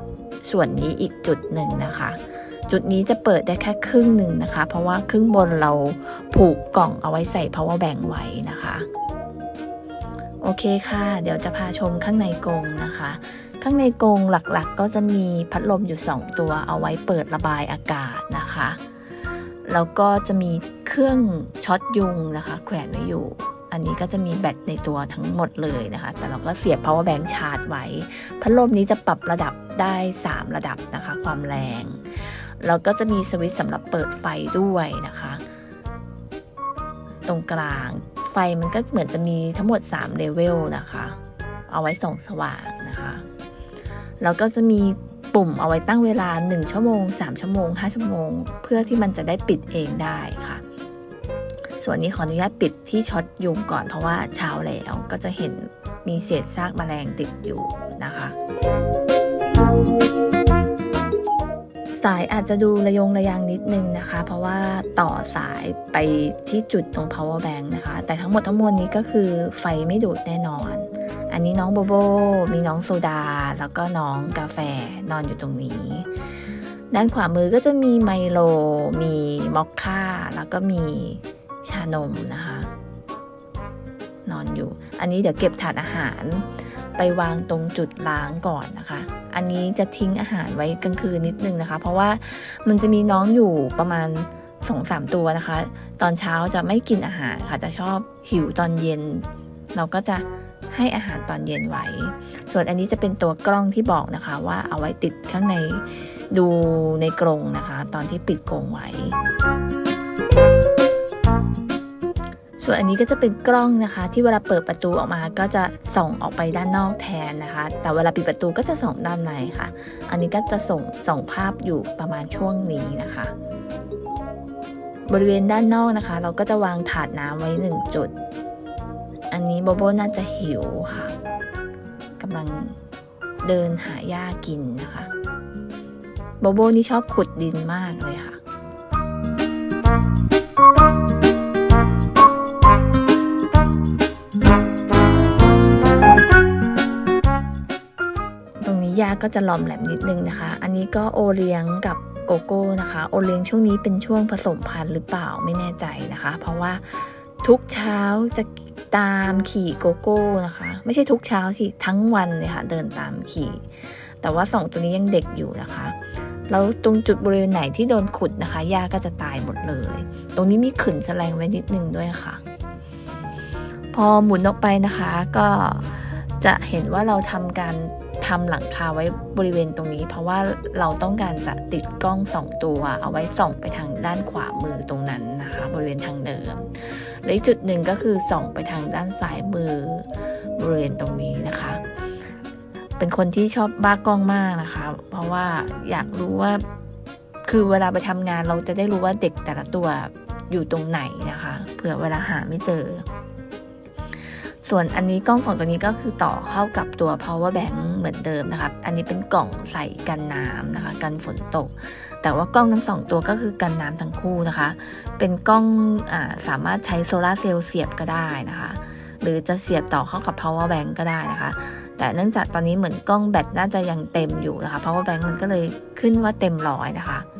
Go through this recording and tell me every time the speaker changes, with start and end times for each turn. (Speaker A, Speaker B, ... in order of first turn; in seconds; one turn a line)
Speaker A: 0.4-8.9
Speaker A: 10.4-18.8
Speaker A: 19.6-35.4
Speaker A: 37.3-41.2
Speaker A: 41.7-43.2
Speaker A: 44.2-50.6
Speaker A: 51.8-58.4
Speaker A: 61.9-76.1
Speaker A: 76.9-82.7
Speaker A: 84.3-109.2
Speaker A: 112.6-123.3
Speaker A: 125.1-128.1
Speaker A: 129.3-131.2
Speaker A: 132.2-132.8
Speaker A: 133.4-135.1
Speaker A: 136.4-138.4
Speaker A: 148.6-163.7
Speaker A: 164.2-166.0
Speaker A: 166.5-172.4
Speaker A: 173.9-191.8
Speaker A: 193.0-196.6
Speaker A: 197.4-203.1
Speaker A: 204.6-227.3